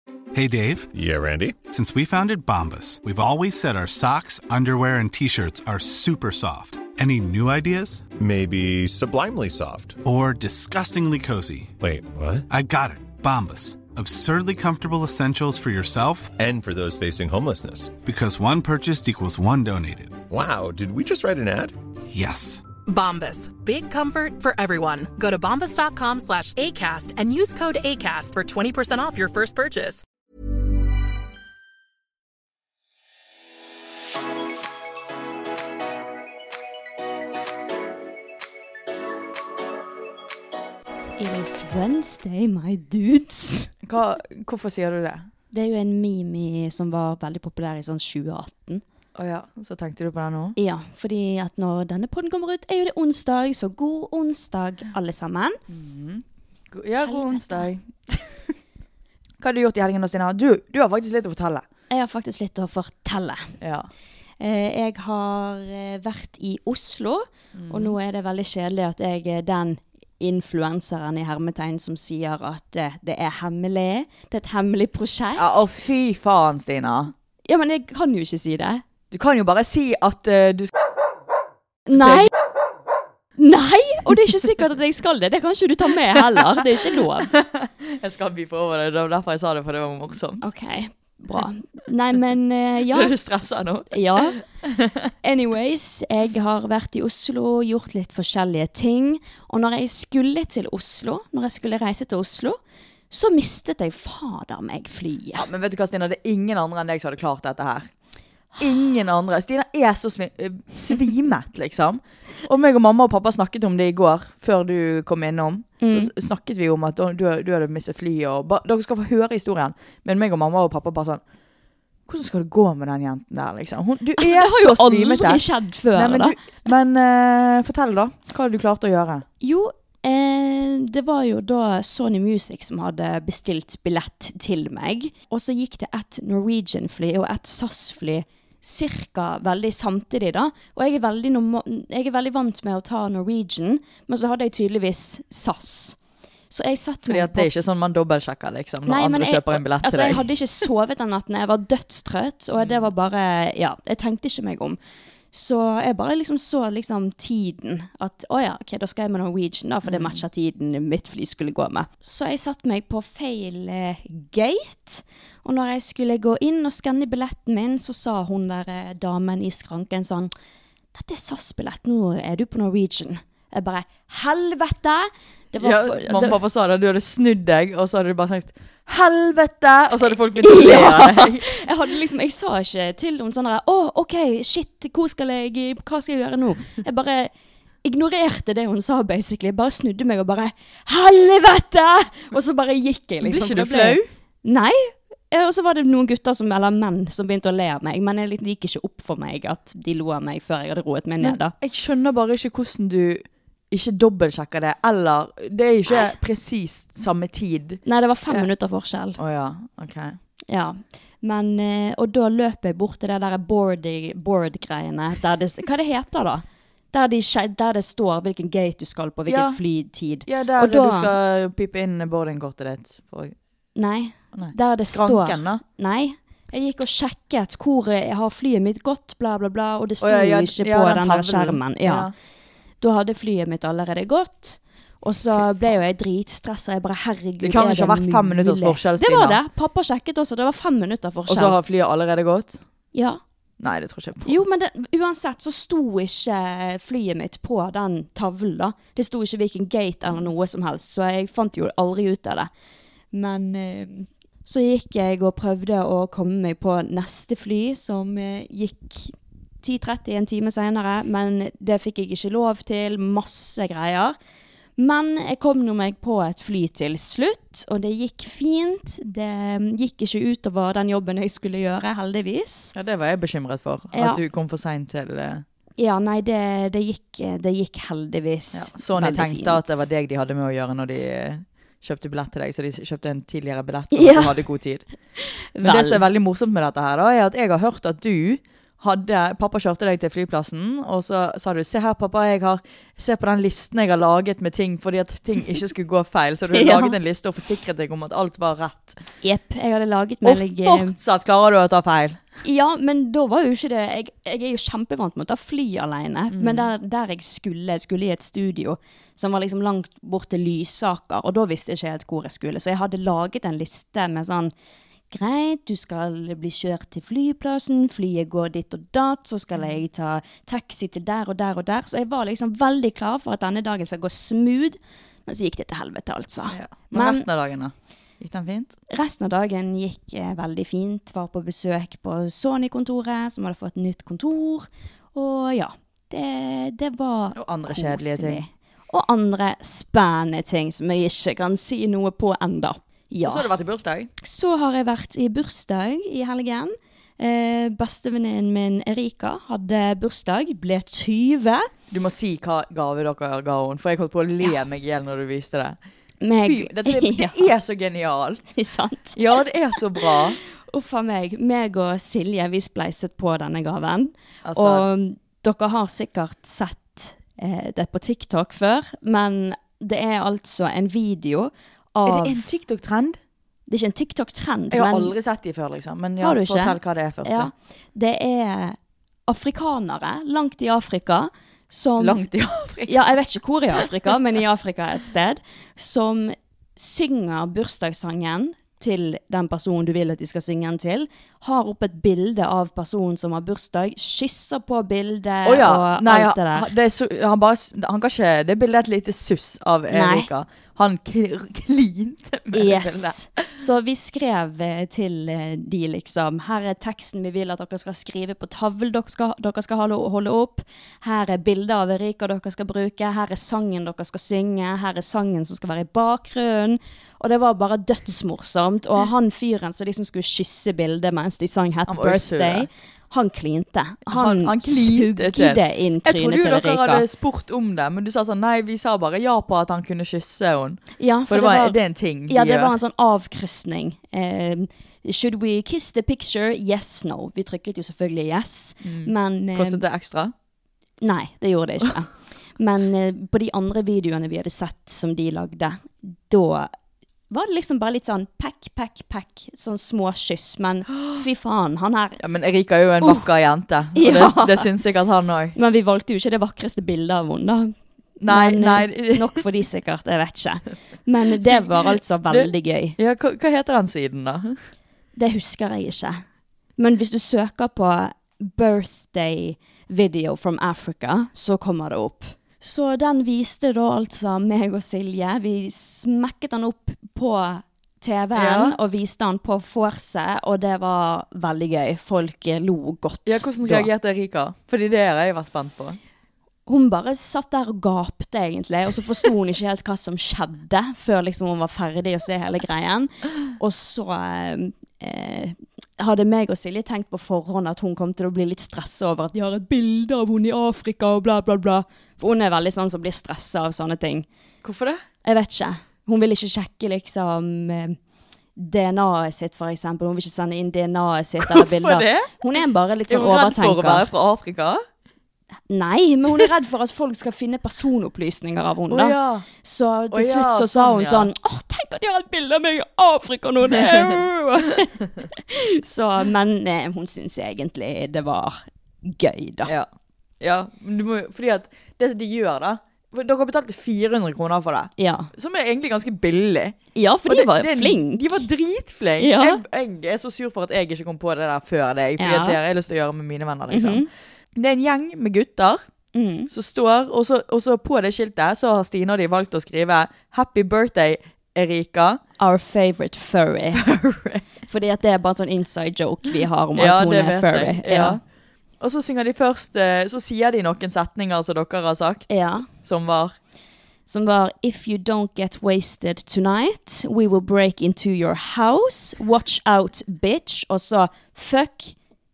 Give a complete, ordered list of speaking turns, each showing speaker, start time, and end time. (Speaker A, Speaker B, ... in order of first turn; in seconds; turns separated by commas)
Speaker A: 0.3-0.9, Speaker B: 0.9-1.6, Speaker A: 1.7-8.1, Speaker B: 8.2-10.0, Speaker A: 10.0-11.8, Speaker B: 11.8-12.4, Speaker A: 12.5-16.3, Speaker B: 16.4-18.0, Speaker A: 18.0-20.2, Speaker B: 20.3-21.7, Speaker A: 22.1-22.6, Speaker C: 22.9-30.0, Speaker D: 41.2-43.7, Speaker E: 43.8-45.3, Speaker D: 45.5-48.8, Speaker E: 49.1-50.5, Speaker D: 50.5-55.6, Speaker E: 55.7-58.5, Speaker D: 57.0-57.6, Speaker E: 59.4-61.6, Speaker D: 61.9-63.5, Speaker E: 63.6-63.9, Speaker D: 64.4-75.6, Speaker E: 67.5-68.0, Speaker E: 75.4-77.1, Speaker D: 77.4-78.8, Speaker E: 79.1-80.7, Speaker D: 81.9-82.3, Speaker E: 81.9-82.3, Speaker D: 83.4-87.3, Speaker E: 86.2-86.6, Speaker E: 87.2-90.5, Speaker D: 90.4-93.1, Speaker E: 92.9-95.1, Speaker D: 93.9-94.4, Speaker D: 95.2-102.6, Speaker D: 103.1-105.5, Speaker E: 105.3-107.9, Speaker E: 108.6-121.2, Speaker D: 115.8-116.1, Speaker E: 122.1-129.2, Speaker D: 124.2-126.3, Speaker D: 129.4-146.0, Speaker D: 146.5-147.6, Speaker E: 147.1-150.3, Speaker D: 148.8-154.8, Speaker E: 152.6-152.9, Speaker D: 155.3-170.3, Speaker E: 159.8-160.2, Speaker D: 170.9-176.4, Speaker E: 175.6-181.5, Speaker D: 180.3-187.3, Speaker D: 187.8-201.5, Speaker E: 193.2-194.1, Speaker E: 201.2-208.5, Speaker D: 207.8-209.2, Speaker E: 209.2-210.2, Speaker D: 210.5-221.1, Speaker E: 219.3-219.6, Speaker E: 220.2-223.3, Speaker D: 223.8-232.1, Speaker E: 224.3-225.6, Speaker E: 230.0-232.1, Speaker D: 232.8-241.6, Speaker E: 235.3-235.7, Speaker E: 237.4-239.4, Speaker E: 241.3-242.7, Speaker D: 242.9-243.2, Speaker E: 243.6-244.4, Speaker D: 244.2-252.5, Speaker D: 253.1-264.1, Speaker D: 264.8-272.7, Speaker E: 272.7-275.4, Speaker D: 273.9-274.2, Speaker D: 275.8-279.8, Speaker E: 278.5-284.9, Speaker D: 283.9-284.4, Speaker D: 285.2-286.0, Speaker E: 285.6-299.0, Speaker D: 296.5-297.0, Speaker D: 299.2-300.9, Speaker E: 300.2-302.2, Speaker D: 302.4-314.5, Speaker E: 306.3-306.7, Speaker D: 315.1-327.2, Speaker E: 319.5-319.8, Speaker E: 326.5-328.8, Speaker D: 328.9-343.5, Speaker E: 337.3-338.4, Speaker E: 343.2-344.1, Speaker D: 344.2-351.7, Speaker E: 351.9-355.8, Speaker D: 356.2-357.5, Speaker E: 356.3-358.4, Speaker D: 358.5-359.4, Speaker E: 359.1-360.4, Speaker D: 359.9-372.4, Speaker E: 364.4-364.9, Speaker E: 372.0-373.2, Speaker D: 373.7-375.1, Speaker E: 374.7-377.5, Speaker D: 376.2-382.2, Speaker E: 382.0-383.0, Speaker D: 382.9-396.7, Speaker E: 395.4-403.4, Speaker D: 399.9-400.3, Speaker D: 402.5-427.0, Speaker E: 421.9-422.7, Speaker E: 424.1-432.7, Speaker D: 431.0-439.8, Speaker E: 438.8-440.3, Speaker D: 441.0-446.7, Speaker D: 447.3-452.2, Speaker E: 452.2-455.6, Speaker D: 453.9-454.7, Speaker D: 455.6-463.0, Speaker E: 458.2-459.4, Speaker E: 461.4-464.6, Speaker D: 465.1-466.2, Speaker D: 466.8-483.9, Speaker E: 478.3-478.8, Speaker E: 483.2-486.0, Speaker D: 486.6-504.2, Speaker E: 504.6-505.0, Speaker D: 505.2-508.0, Speaker D: 508.6-514.1, Speaker E: 511.4-512.3, Speaker E: 513.1-514.8, Speaker D: 515.7-529.7, Speaker E: 518.9-519.5, Speaker E: 520.1-521.3, Speaker E: 523.7-524.2, Speaker E: 530.4-545.8, Speaker D: 535.0-535.3, Speaker D: 536.9-538.4, Speaker D: 539.2-539.6, Speaker D: 542.2-542.6, Speaker D: 543.7-544.1, Speaker D: 546.1-546.5, Speaker E: 546.5-552.2, Speaker D: 552.4-553.8, Speaker E: 553.7-554.5, Speaker D: 554.7-558.2, Speaker E: 556.7-558.2, Speaker E: 558.8-563.4, Speaker D: 562.3-562.7, Speaker D: 564.1-571.9